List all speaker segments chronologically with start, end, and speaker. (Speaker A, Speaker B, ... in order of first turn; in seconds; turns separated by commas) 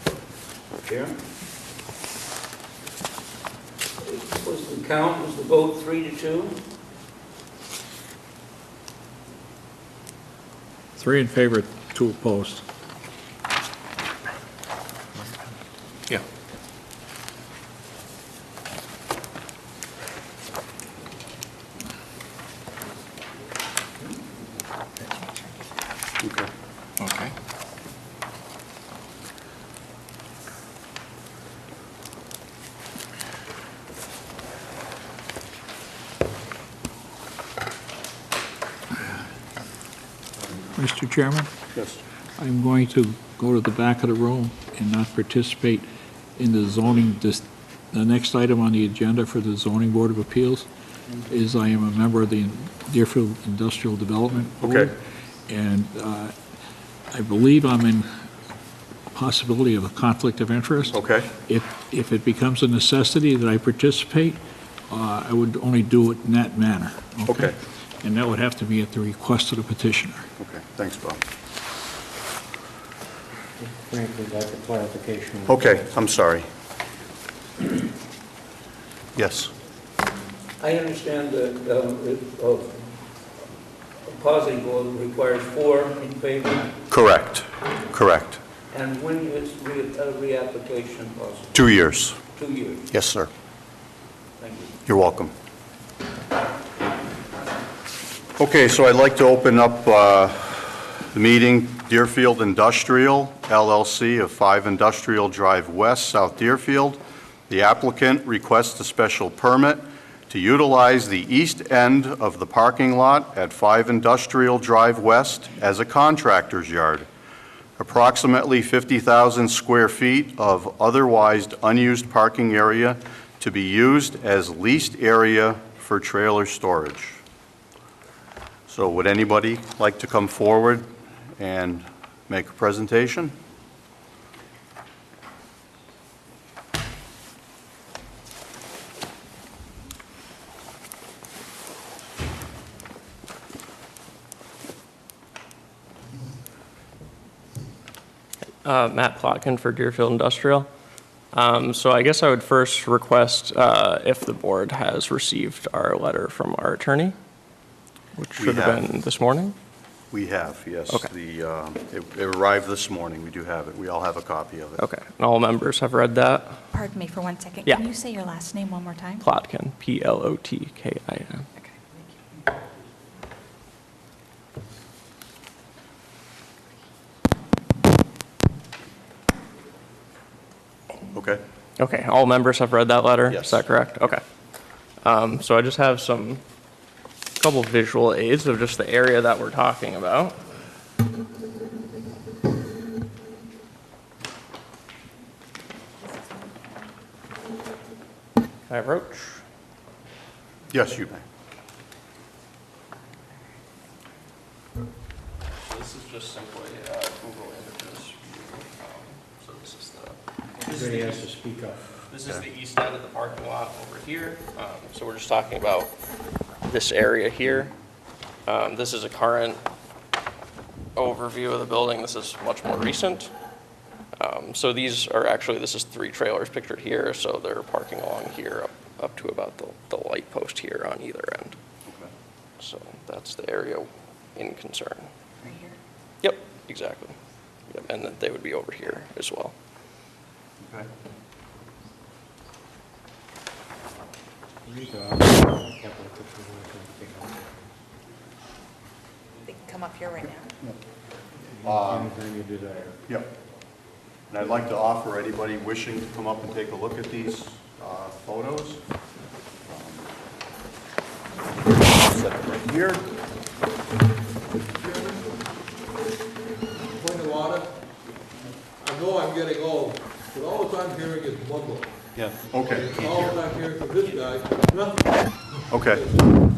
Speaker A: 0.8-1.1, Speaker A: 4.0-6.6, Speaker B: 11.0-12.6, Speaker C: 26.2-26.5, Speaker D: 27.0-27.3, Speaker B: 40.7-41.5, Speaker C: 41.7-42.0, Speaker B: 42.4-45.9, Speaker B: 46.4-50.7, Speaker B: 51.3-54.9, Speaker C: 54.6-54.9, Speaker B: 55.5-56.3, Speaker B: 57.1-58.1, Speaker B: 59.1-64.4, Speaker C: 60.9-61.3, Speaker B: 64.9-70.2, Speaker C: 67.3-67.6, Speaker C: 70.4-71.2, Speaker E: 73.6-75.9, Speaker C: 75.5-76.5, Speaker C: 79.2-79.5, Speaker A: 80.6-82.8, Speaker A: 84.0-86.8, Speaker C: 86.9-88.4, Speaker A: 88.7-91.6, Speaker C: 91.5-92.2, Speaker A: 92.3-92.9, Speaker C: 92.9-93.3, Speaker A: 94.4-94.7, Speaker C: 94.9-95.3, Speaker C: 98.4-117.1, Speaker C: 117.8-127.2, Speaker C: 128.7-133.3, Speaker D: 148.6-150.7, Speaker D: 151.3-157.2, Speaker D: 158.2-159.6, Speaker C: 158.4-158.8, Speaker C: 160.1-164.8, Speaker D: 164.8-166.6, Speaker F: 166.7-169.2, Speaker D: 169.2-171.5, Speaker F: 171.6-172.0, Speaker C: 181.1-181.4, Speaker D: 181.8-184.2, Speaker C: 183.3-183.7, Speaker D: 185.0-186.4, Speaker D: 187.4-190.4, Speaker D: 198.7-199.4, Speaker C: 200.7-201.2, Speaker D: 205.6-211.3, Speaker E: 210.6-211.8, Speaker D: 212.1-215.9, Speaker D: 216.7-217.7, Speaker D: 218.5-219.6, Speaker D: 221.0-223.3, Speaker D: 224.2-231.6, Speaker D: 232.6-235.1, Speaker F: 235.4-235.8, Speaker D: 236.2-237.2, Speaker D: 237.7-239.5, Speaker C: 240.6-240.9, Speaker E: 244.7-247.7, Speaker F: 249.5-250.5, Speaker E: 251.6-253.0, Speaker C: 251.6-252.2, Speaker C: 253.1-253.3, Speaker C: 254.3-258.8, Speaker C: 259.7-260.1, Speaker C: 262.1-263.0, Speaker G: 264.8-265.2, Speaker G: 267.0-267.8, Speaker G: 268.8-272.0, Speaker C: 272.4-273.0, Speaker G: 272.7-275.2, Speaker C: 275.7-276.0, Speaker G: 275.8-276.3